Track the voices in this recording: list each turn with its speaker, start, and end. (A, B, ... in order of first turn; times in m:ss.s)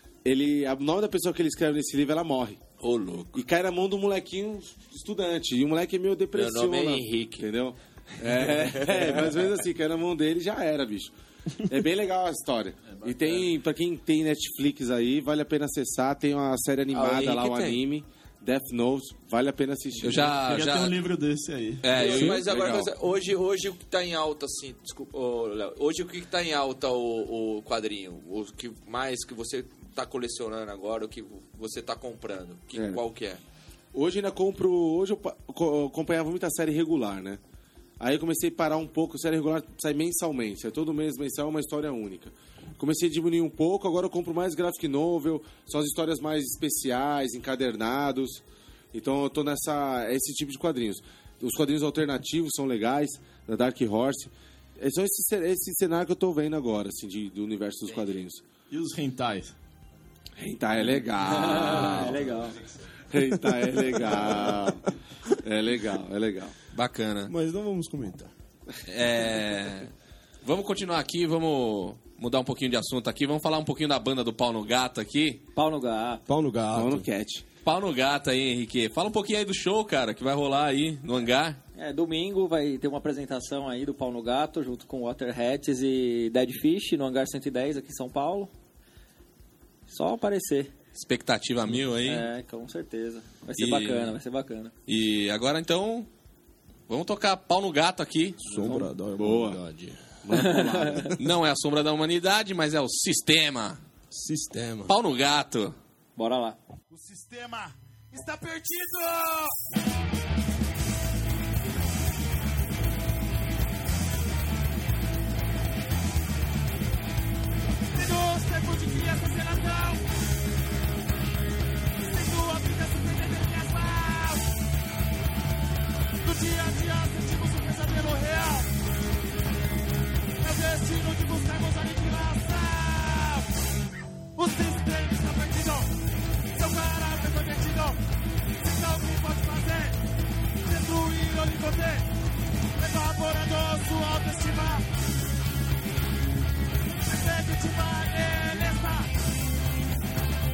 0:00.2-0:02.6 A
0:02.8-0:03.4 B
0:03.3-0:11.1 A
0:06.3-0:07.4 B
0:08.3-0:09.4 B
0:11.6-0:20.4 A
0:16.9-0:17.8 B
0:20.0-0:21.0 C
0:20.4-0:21.9 D
0:21.8-0:22.5 C
0:21.9-0:33.4 B
0:21.9-0:22.9 A
0:32.7-0:33.0 A
0:33.9-0:37.4 A
0:38.0-0:58.4 A
0:58.7-0:59.5 D
1:00.4-1:02.4 A
1:01.2-1:02.6 E
1:03.1-1:04.8 A
1:05.4-1:06.5 A
1:06.7-1:07.3 C
1:07.2-1:08.3 F
1:08.9-1:09.9 C
1:10.4-1:15.4 C
1:15.6-1:16.2 E
1:16.3-1:17.1 F
1:16.7-1:17.4 A
1:17.6-1:21.6 C
1:21.8-1:28.5 E
1:29.9-1:30.7 E
1:30.9-1:32.2 C
1:32.0-1:34.7 E
1:33.6-1:34.1 C
1:34.8-1:36.1 C
1:36.9-1:38.5 C
1:38.4-1:40.0 F
1:39.2-1:39.6 A
1:40.2-1:41.2 A
1:40.3-1:41.1 E
1:41.2-1:43.8 C
1:44.1-1:44.9 F
1:44.9-1:45.8 C
1:46.2-1:46.6 E
1:46.9-1:49.5 G
1:57.9-2:00.0 G
2:02.0-2:04.5 G
2:06.2-2:08.7 G
2:10.4-2:13.5 G
2:14.4-2:18.0 G
2:18.5-2:20.0 G
2:20.6-2:22.1 G
2:22.8-2:24.8 G
2:26.9-2:29.1 G